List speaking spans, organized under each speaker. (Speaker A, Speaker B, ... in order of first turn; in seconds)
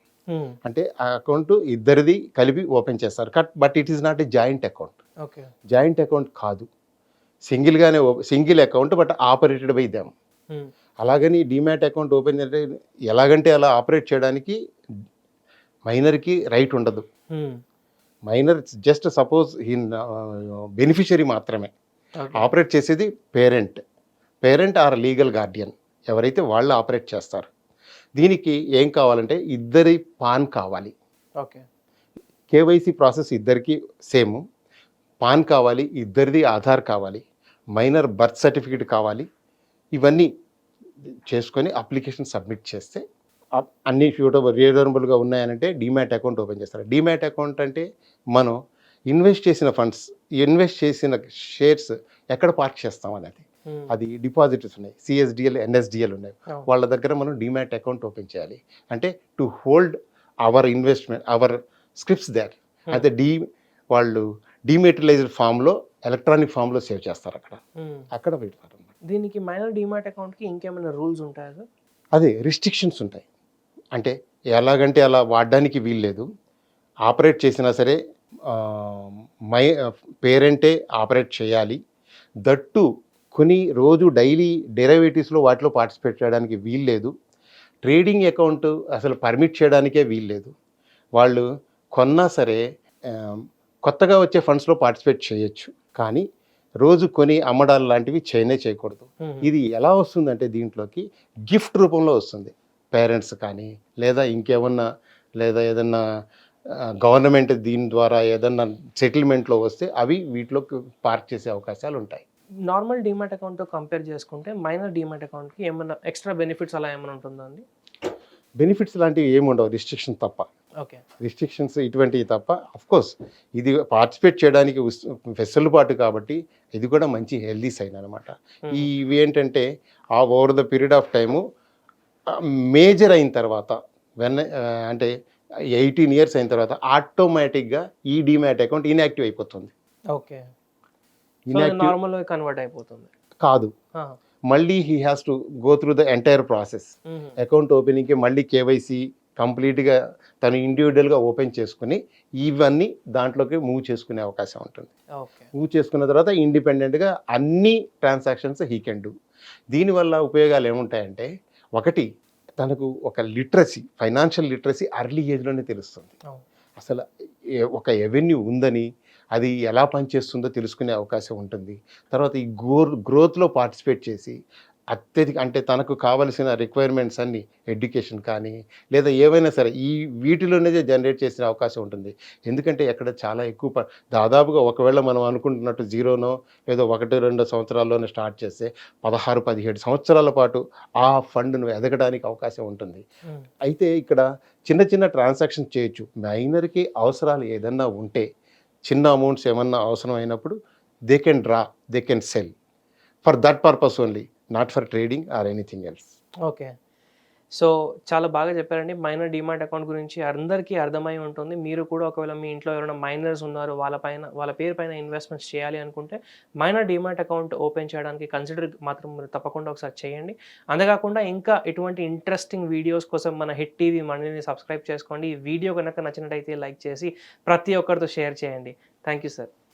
Speaker A: 0.3-0.5, 5.2-5.5, 22.2-22.5, 69.1-71.6, 112.7-117.6, 140.1-140.4, 141.5-143.1, 147.1-147.4, 155.2-155.5, 206.4-206.7, 207.6-229.5
Speaker B: 0.6-5.0, 5.7-6.7, 7.5-10.1, 11.0-14.6, 15.9-17.0, 18.3-21.7, 22.4-23.8, 24.4-27.5, 28.2-30.9, 32.5-34.4, 35.2-37.2, 37.7-39.2, 40.0-40.3, 41.3-43.0, 43.6-48.5, 49.1-63.4, 63.9-67.6, 68.1-68.9, 72.1-73.2, 73.9-76.2, 77.1-78.0, 78.5-79.7, 80.2-81.8, 82.5-87.1, 87.8-90.5, 91.2-91.4, 91.9-96.2, 96.8-104.8, 105.4-106.0, 107.0-112.2, 118.6-120.5, 121.2-129.6, 130.2-131.4, 132.7-135.1, 135.8-139.7, 141.5-141.9, 143.4-143.7, 144.5-154.9, 155.6-159.1, 159.7-162.1, 162.6-166.1, 166.8-167.0, 167.7-174.3, 174.9-193.0, 193.6-198.2, 198.9-200.5, 201.1-202.5, 203.2-206.1